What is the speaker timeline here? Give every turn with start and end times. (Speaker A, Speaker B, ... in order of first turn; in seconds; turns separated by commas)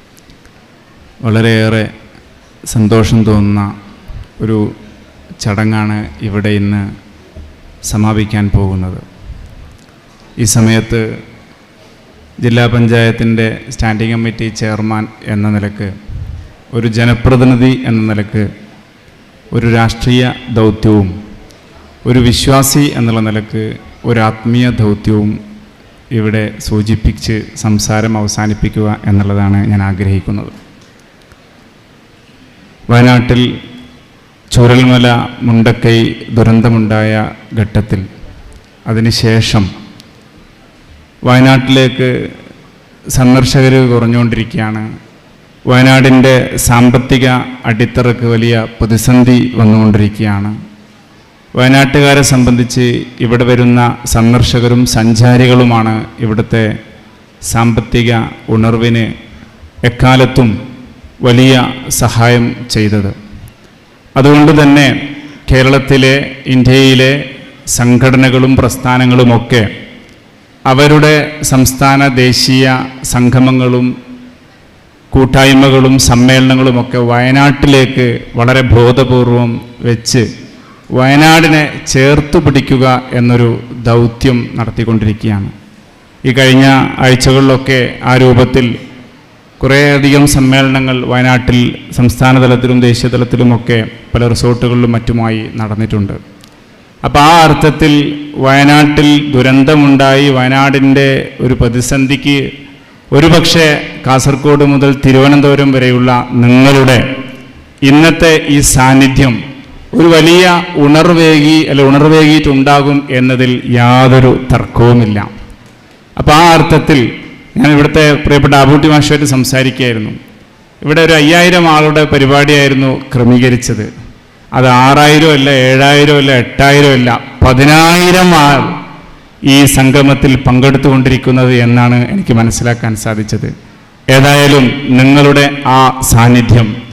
Speaker A: 1.2-1.9, Speaker A: 2.7-3.7, Speaker A: 4.4-4.7, Speaker A: 5.4-6.9, Speaker A: 7.9-9.0, Speaker A: 10.4-11.1, Speaker A: 12.4-15.9, Speaker A: 16.7-18.5, Speaker A: 19.5-21.1, Speaker A: 22.1-25.4, Speaker A: 26.1-30.5, Speaker A: 32.9-33.5, Speaker A: 34.5-38.0, Speaker A: 38.9-39.7, Speaker A: 41.3-42.2, Speaker A: 43.1-44.9, Speaker A: 45.7-50.5, Speaker A: 51.6-56.7, Speaker A: 57.5-59.1, Speaker A: 59.9-60.5, Speaker A: 61.2-63.1, Speaker A: 64.2-64.9, Speaker A: 65.5-69.7, Speaker A: 70.7-73.9, Speaker A: 75.1-80.3, Speaker A: 81.0-85.5, Speaker A: 86.2-88.7, Speaker A: 89.6-96.2, Speaker A: 97.0-102.5, Speaker A: 103.1-107.0, Speaker A: 107.8-109.4, Speaker A: 109.9-115.3, Speaker A: 116.2-120.2, Speaker A: 120.8-123.9, Speaker A: 124.5-128.7, Speaker A: 129.5-133.5, Speaker A: 134.1-136.7